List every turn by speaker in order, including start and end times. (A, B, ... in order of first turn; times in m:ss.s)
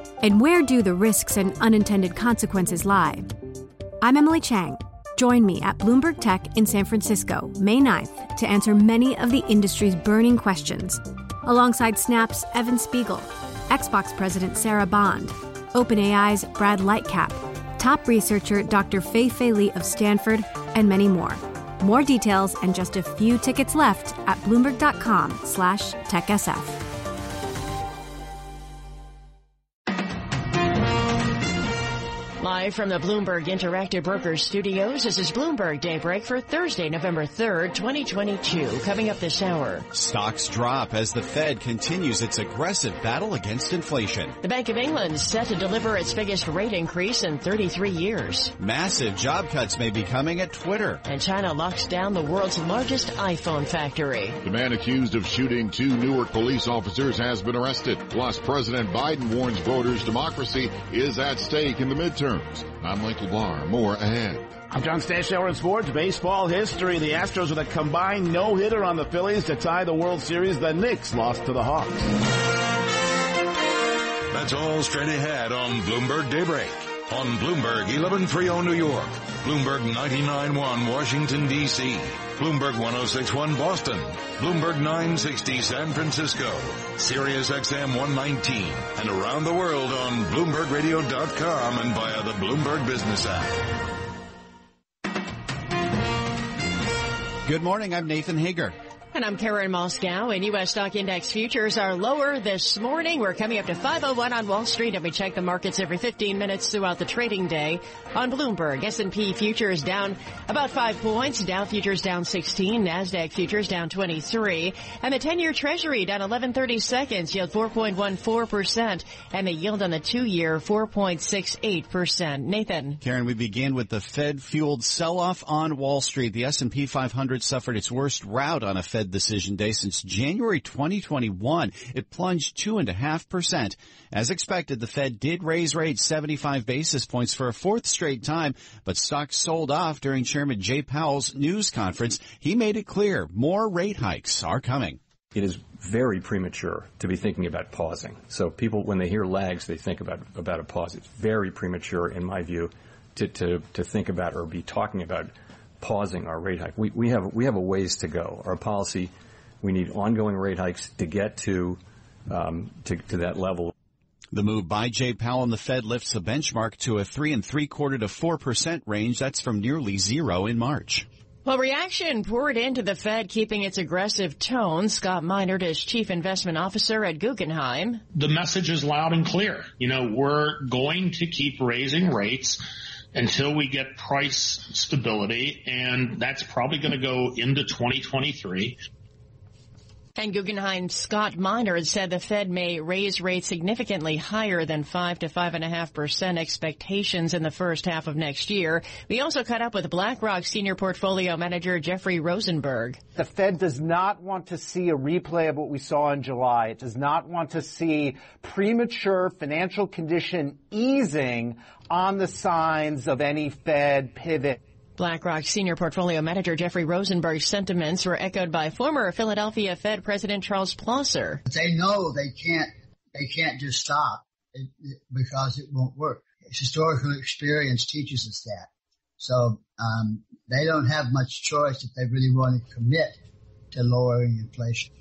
0:00.2-0:03.3 A
0:04.0-0:26.8 A
0:32.4-0:39.9 B
0:39.9-0:44.4 C
0:44.4-0:48.5 B
0:48.6-0:51.0 C
0:51.1-0:54.4 B
0:54.4-1:04.5 D
1:04.7-1:12.1 E
1:14.3-1:33.7 F
1:37.4-1:38.8 C
1:39.1-2:03.0 B
2:03.0-2:25.0 C
2:25.3-2:43.7 G
2:44.3-2:51.1 C
2:51.4-2:58.0 B
2:58.2-3:02.6 H
3:03.1-3:08.8 H
3:10.2-3:23.0 B
3:23.2-3:34.6 I
3:35.0-3:41.4 B
3:41.5-3:48.7 J
3:49.2-3:53.2 J
3:53.7-3:54.9 J